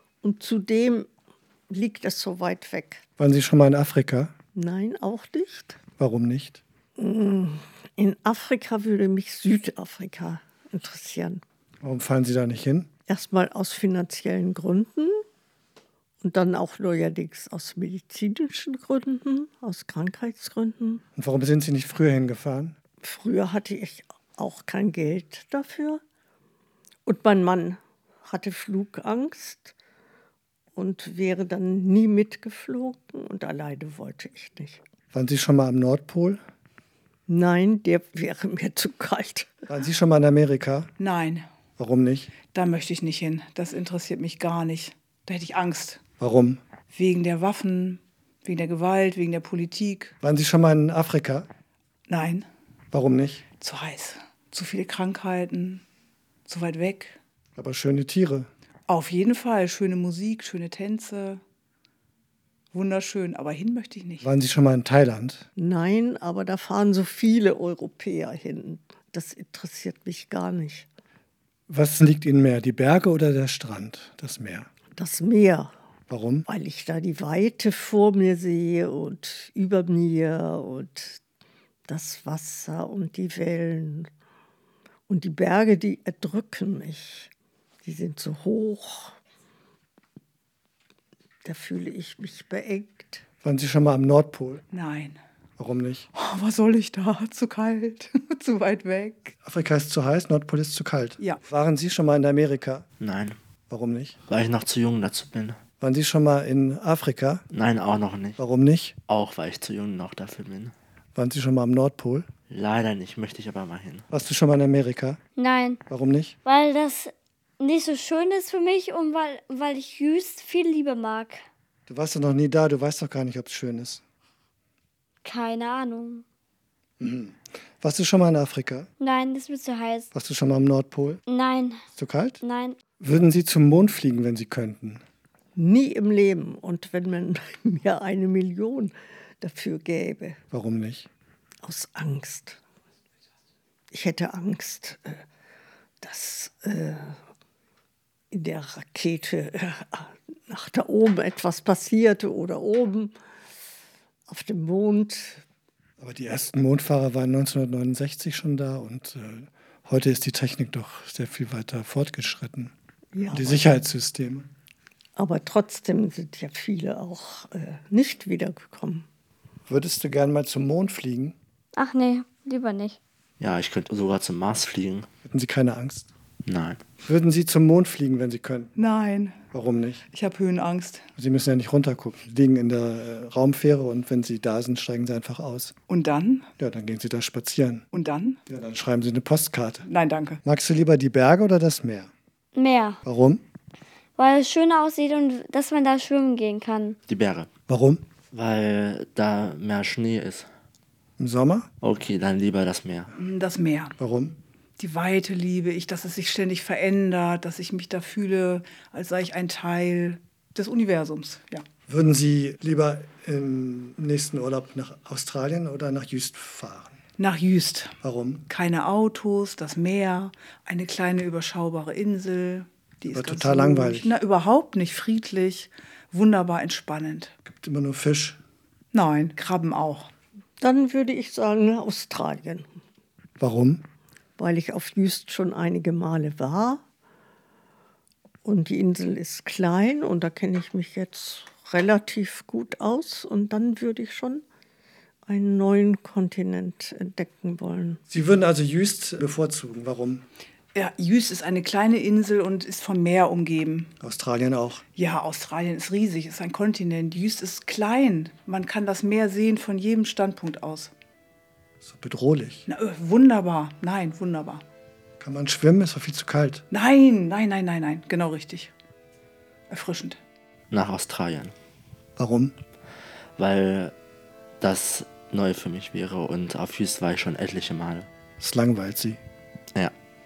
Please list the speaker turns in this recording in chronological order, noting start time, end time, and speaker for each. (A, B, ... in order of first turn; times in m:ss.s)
0:00.2-0:01.1 A
0:01.7-0:03.0 A
0:03.2-0:04.3 B
0:04.5-0:05.8 A
0:06.0-0:06.6 B
0:07.0-0:11.4 A
0:11.8-0:12.9 B
0:13.1-0:15.2 A
0:16.2-0:21.0 A
0:21.2-0:22.8 B
0:23.0-0:26.0 A
0:27.0-0:29.7 A
0:30.7-0:34.8 A
0:35.1-0:36.4 B
0:37.3-0:39.6 A
0:39.7-0:40.9 B
0:41.0-0:41.4 C
0:41.8-0:42.3 B
0:42.5-0:46.0 C
0:46.2-0:46.6 B
0:46.9-0:50.1 C
0:50.2-0:51.5 B
0:52.1-0:52.5 C
0:52.9-0:53.4 B
0:53.6-0:55.8 C
0:56.4-0:57.2 C
0:57.6-0:58.5 B
0:58.9-1:01.4 C
1:02.7-1:04.2 C
1:04.2-1:05.5 B
1:05.6-1:10.9 A
1:11.7-1:14.7 B
1:15.0-1:15.7 A
1:16.1-1:16.5 B
1:16.5-1:21.2 A
1:21.9-1:24.1 A
1:25.1-1:27.3 A
1:27.8-1:29.1 A
1:31.4-1:33.2 A
1:33.4-1:34.6 B
1:34.7-1:35.2 C
1:35.6-1:36.1 B
1:36.1-1:39.3 C
1:39.4-1:42.8 B
1:43.0-1:43.4 D
1:43.7-1:44.2 B
1:44.3-1:45.6 D
1:45.8-1:47.4 B
1:47.5-1:48.4 D
1:48.4-1:49.0 B
1:49.1-1:50.7 D
1:51.1-1:52.3 B
1:52.5-1:54.0 D
1:54.1-1:55.2 B
1:55.4-1:55.8 E
1:55.9-1:56.4 B
1:56.4-2:01.4 E
2:01.9-2:04.0 B
2:05.2-2:06.2 E
2:07.0-2:08.9 B
2:09.0-2:10.1 E
2:10.1-2:11.2 B
2:11.3-2:11.8 E
2:11.9-2:12.4 B
2:12.4-2:12.8 E
2:13.0-2:15.0 B
2:15.6-2:20.4 A
2:20.5-2:21.1 B
2:21.6-2:22.6 A
2:23.9-2:25.2 A
2:26.0-2:27.2 A
2:28.3-2:33.1 A
2:34.3-2:35.4 A
2:36.0-2:42.7 B
2:43.1-2:43.7 A
2:43.3-2:44.5 B
2:45.2-2:49.0 A
2:49.7-2:51.4 B
2:51.8-2:53.0 E
2:53.4-2:55.1 D
2:55.2-2:56.1 B
2:56.4-2:56.8 D
2:57.0-2:58.7 B
2:58.8-2:59.4 C
2:59.5-3:00.0 B
3:00.1-3:01.0 C
3:01.2-3:05.7 B
3:05.9-3:06.5 C
3:06.6-3:07.8 B
3:07.9-3:08.4 C
3:08.5-3:09.9 B
3:09.8-3:10.4 C
3:10.4-3:12.1 B
3:12.6-3:13.0 E
3:13.0-3:13.4 B
3:14.2-3:17.0 E
3:17.1-3:17.5 D
3:17.7-3:18.0 B
3:18.3-3:20.5 D
3:21.2-3:21.7 B
3:21.8-3:23.1 D
3:23.2-3:24.0 C
3:24.0-3:24.4 B
3:24.8-3:31.6 C
3:31.9-3:37.0 B
3:37.2-3:38.0 C
3:38.0-3:38.4 B
3:38.5-3:47.3 C
3:43.1-3:44.1 B
3:47.4-3:48.4 B
3:48.9-3:50.1 C
3:50.6-3:52.6 A
3:53.4-3:53.8 B
3:54.4-3:56.8 A
3:58.4-4:04.4 A
4:05.2-4:08.0 A
4:08.1-4:10.2 B
4:10.7-4:13.9 C
4:14.0-4:14.8 B
4:15.0-4:20.9 C
4:21.8-4:22.7 B
4:22.7-4:24.6 C
4:25.2-4:26.6 B
4:26.7-4:28.7 C
4:29.7-4:30.2 C
4:30.7-4:31.5 D
4:32.2-4:32.5 B
4:33.4-4:33.9 D
4:34.6-4:38.1 D
4:38.4-4:39.2 B